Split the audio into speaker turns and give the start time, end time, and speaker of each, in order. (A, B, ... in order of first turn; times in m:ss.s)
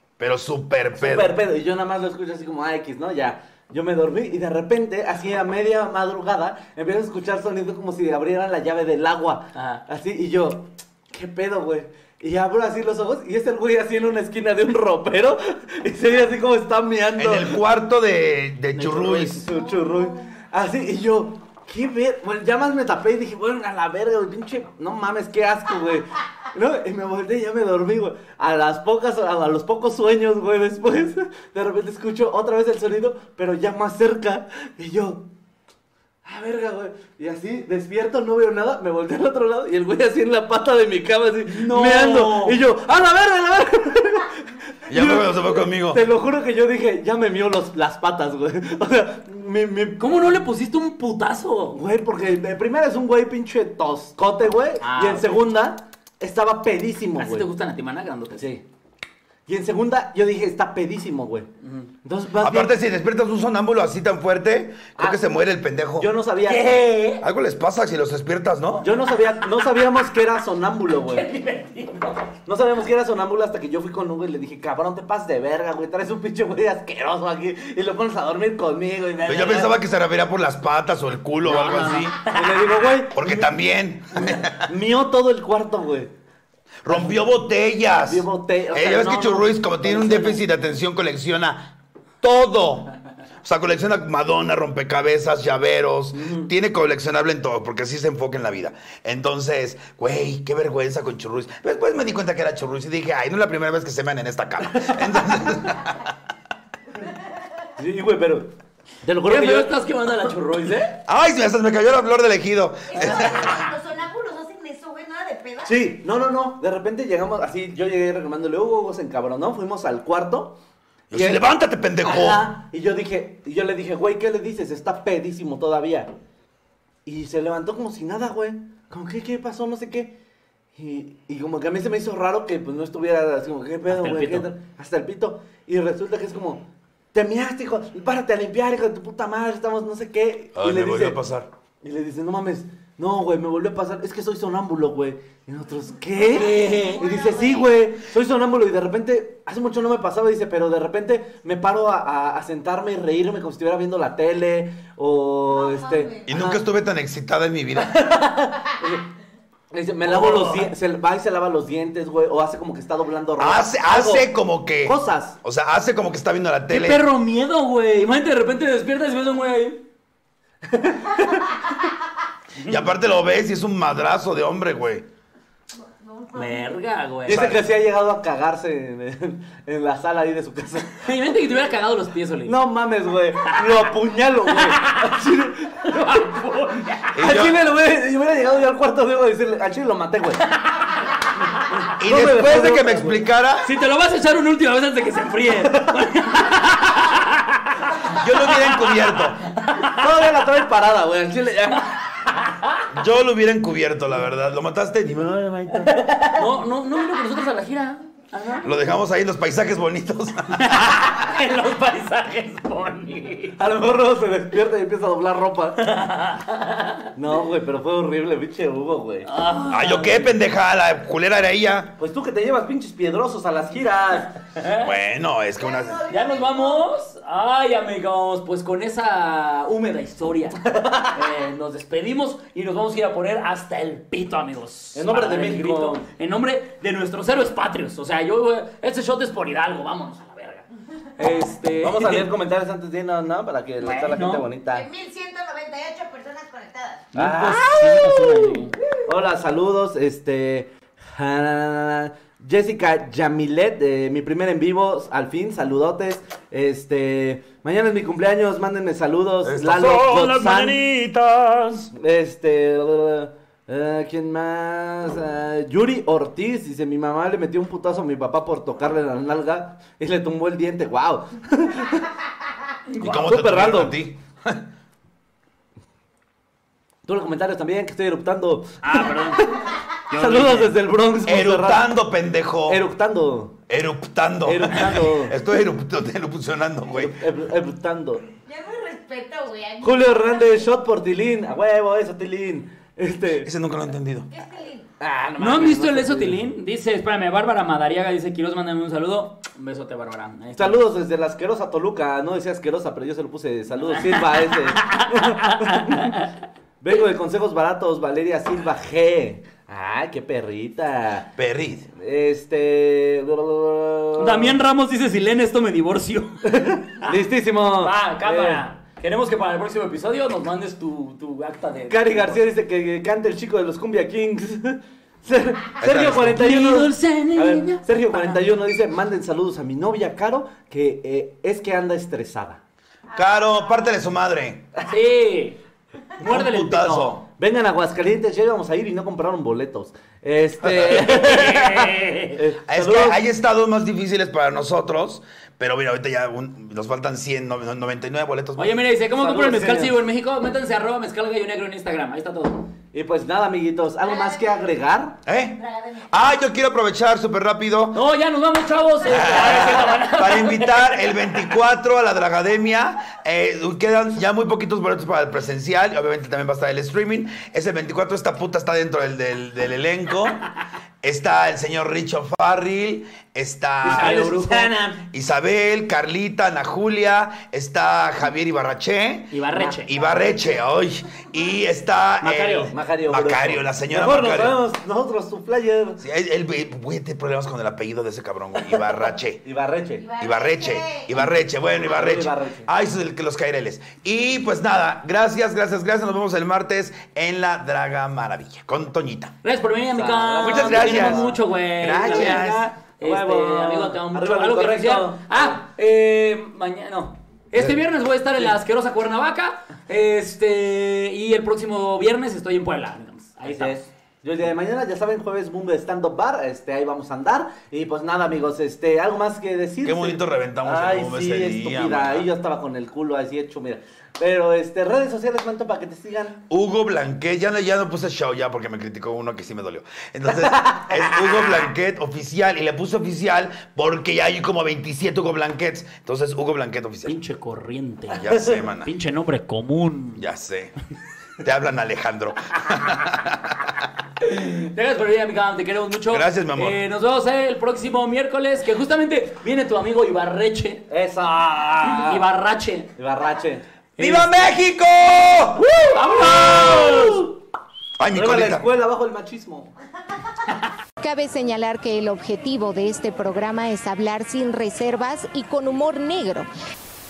0:00.2-0:01.4 A
0:01.0-0:17.6 B
0:09.5-0:09.8 C
0:17.2-0:19.4 A
0:18.7-0:19.3 C
0:19.2-0:35.2 B
0:19.5-0:20.3 D
0:36.2-0:44.4 B
0:41.4-0:42.6 C
0:44.9-0:46.0 A
0:44.9-0:50.3 B
0:50.0-0:51.8 C
0:51.7-0:57.5 B
0:54.8-0:55.4 C
0:57.2-0:58.5 C
0:58.4-0:58.6 B
0:59.5-1:01.5 B
1:01.6-1:01.9 C
1:02.0-1:02.7 B
1:02.4-1:06.1 A
1:05.0-1:05.2 B
1:06.0-1:06.8 B
1:06.4-1:07.2 C
1:07.2-1:08.9 A
1:08.8-1:11.3 B
1:11.1-1:12.3 C
1:12.4-1:19.7 B
1:19.2-1:22.2 A
1:21.4-1:23.0 C
1:22.3-1:23.5 B
1:23.1-1:24.7 A
1:24.2-1:26.1 B
1:26.8-1:32.9 A
1:26.9-1:27.2 B
1:28.0-1:30.4 B
1:33.4-1:46.0 A
1:44.8-1:45.5 B
1:47.8-1:48.5 B
1:49.0-1:49.7 B
1:49.2-1:51.0 C
1:51.1-1:53.6 A
1:52.9-1:55.9 D
1:53.0-1:53.7 C
1:55.6-2:00.6 B
2:01.1-2:02.5 A
2:01.1-2:01.5 B
2:02.0-2:06.1 B
2:07.0-2:10.1 B
2:10.8-2:21.2 B
2:13.9-2:14.5 C
2:20.5-2:21.5 A
2:21.8-2:36.6 B
2:26.2-2:27.7 D
2:26.2-2:27.1 C
2:35.5-2:36.3 D
2:36.3-2:38.0 A
2:37.8-2:39.0 B
2:39.7-2:44.3 B
2:40.0-2:40.7 C
2:43.4-2:47.0 A
2:44.8-2:45.4 B
2:46.7-2:49.8 C
2:50.7-2:51.6 B
2:52.6-2:52.8 C
2:52.6-2:55.0 A
2:55.8-2:56.7 D
2:56.3-2:57.6 C
2:57.2-3:01.0 B
2:57.3-2:57.6 A
3:01.0-3:02.6 C
3:02.4-3:06.2 B
3:04.5-3:05.2 C
3:05.8-3:07.4 C
3:07.1-3:07.6 A
3:07.2-3:10.4 B
3:10.5-3:10.9 C
3:11.7-3:13.2 B
3:12.0-3:13.7 A
3:13.6-3:19.0 C
3:15.7-3:16.0 B
3:18.0-3:19.5 A
3:19.5-3:20.0 C
3:19.8-3:21.9 B
3:22.3-3:22.8 C
3:22.9-3:26.0 A
3:25.8-3:26.4 B
3:26.2-3:28.7 C
3:28.6-3:31.0 A
3:30.6-3:33.6 C
3:33.6-3:35.8 B
3:35.8-3:37.1 C
3:37.2-3:39.3 B
3:39.2-3:40.4 C
3:39.7-3:42.0 A
3:42.0-3:44.4 B
3:44.4-3:44.9 C
3:44.8-3:46.0 A
3:45.6-3:46.9 D
3:46.1-4:00.6 C
3:50.6-3:51.1 B
3:54.9-3:56.0 B
4:01.2-4:02.3 C
4:01.8-4:04.9 B
4:03.8-4:04.4 C
4:04.7-4:07.1 D
4:07.1-4:08.5 B
4:07.1-4:08.7 C
4:09.0-4:20.8 B
4:19.4-4:21.9 A
4:21.9-4:32.1 B
4:32.9-4:33.2 C
4:33.0-4:34.0 B
4:33.0-4:34.6 A
4:37.0-4:39.6 B
4:38.8-4:40.8 C
4:40.1-4:41.9 B
4:41.2-4:42.8 A
4:42.6-4:43.5 B
4:43.7-4:47.2 A
4:44.4-4:45.4 B
4:46.9-4:48.2 B
4:48.4-4:50.7 D
4:49.8-4:53.5 B
4:53.4-4:54.3 A
4:54.3-4:54.9 D
4:55.0-4:56.4 B
4:55.4-5:00.8 C
5:00.6-5:06.2 B
5:03.9-5:06.3 C
5:06.8-5:11.3 B
5:11.4-5:11.9 A
5:12.0-5:14.6 B
5:14.2-5:16.5 C
5:16.4-5:18.6 B
5:17.0-5:22.5 C
5:21.9-5:32.6 B
5:25.8-5:26.5 A
5:26.2-5:28.4 C
5:33.1-5:34.7 A
5:34.8-5:35.6 C
5:36.2-5:37.2 C
5:36.2-5:37.2 A
5:37.2-5:43.2 B
5:40.6-5:41.2 A
5:41.0-5:42.4 C
5:42.7-5:48.9 A
5:48.6-5:52.7 C
5:49.0-5:50.0 B
5:52.9-5:55.2 B
5:54.0-5:54.8 D
5:55.2-5:55.6 A
5:55.6-5:56.2 D
5:56.1-5:58.0 A
5:57.9-6:01.5 C
5:59.0-6:10.5 A
6:11.0-6:14.4 A
6:13.8-6:14.9 B
6:13.8-6:15.0 C
6:15.0-6:24.6 A
6:19.3-6:19.9 C
6:22.2-6:22.7 C
6:22.7-6:26.0 B
6:26.0-6:29.4 A
6:29.4-6:30.1 B
6:30.0-6:31.1 D
6:30.2-6:39.4 A
6:31.2-6:32.7 B
6:39.4-6:53.8 C
6:39.8-6:45.6 B
6:40.4-6:42.7 A
6:53.4-7:06.4 B
6:59.8-7:02.3 A
7:06.5-7:17.2 A
7:10.3-7:11.2 B
7:17.0-7:20.2 C
7:18.1-7:18.9 A
7:20.2-7:20.7 A
7:21.4-7:23.7 A
7:24.2-7:30.9 C
7:26.1-7:26.8 A
7:30.9-7:32.3 B
7:31.8-7:32.9 C
7:33.0-7:33.6 B
7:34.0-7:34.4 C
7:34.0-7:35.7 A
7:35.8-7:37.3 C
7:36.1-7:37.3 B
7:36.3-7:36.8 A
7:38.0-7:38.7 A
7:38.1-7:39.7 B
7:41.0-7:46.5 E